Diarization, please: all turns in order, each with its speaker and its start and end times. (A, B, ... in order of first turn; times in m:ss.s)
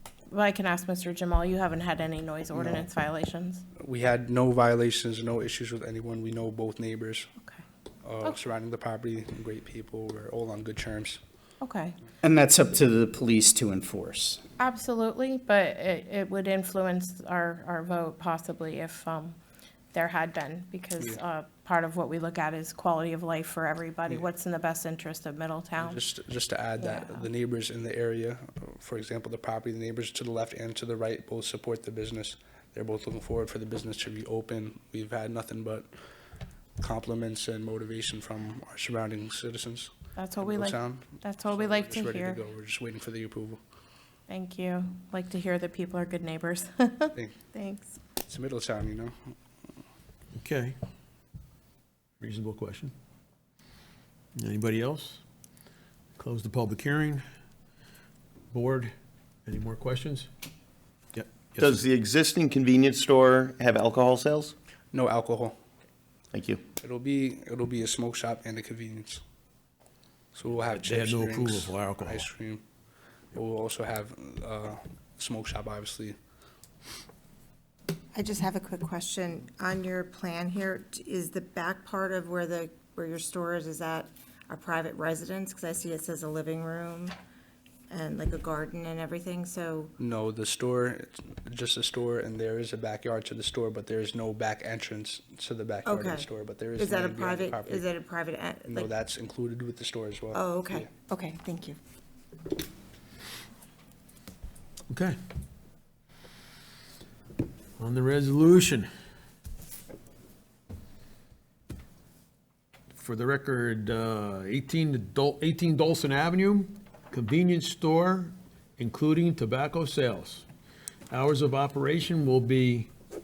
0:00.3-0:03.6 A
0:02.5-0:02.9 B
0:03.8-0:07.3 B
0:08.0-0:11.2 B
0:11.6-0:12.0 A
0:12.2-0:14.4 C
0:14.6-0:19.4 A
0:19.9-0:26.0 A
0:25.8-0:35.9 B
0:26.8-0:27.2 A
0:36.8-0:39.9 B
0:40.2-0:42.4 A
0:40.4-0:43.6 B
0:44.3-0:48.0 A
0:48.2-0:49.1 B
0:50.4-0:50.7 D
0:52.2-0:52.9 D
0:54.4-0:55.2 D
0:56.2-0:57.2 D
0:58.5-0:58.9 D
0:59.4-1:00.3 D
1:01.1-1:01.7 D
1:01.6-1:04.5 E
1:04.9-1:05.5 B
1:06.3-1:06.6 E
1:06.8-1:09.2 B
1:10.3-1:12.6 B
1:10.8-1:12.2 D
1:13.3-1:16.2 B
1:18.1-1:27.1 F
1:27.9-1:29.9 F
1:30.0-1:37.9 B
1:35.8-1:38.9 F
1:38.7-1:40.9 B
1:40.3-1:41.8 F
1:44.9-1:45.2 D
1:47.8-1:48.9 D
1:52.9-2:00.4 D
2:01.1-2:02.9 D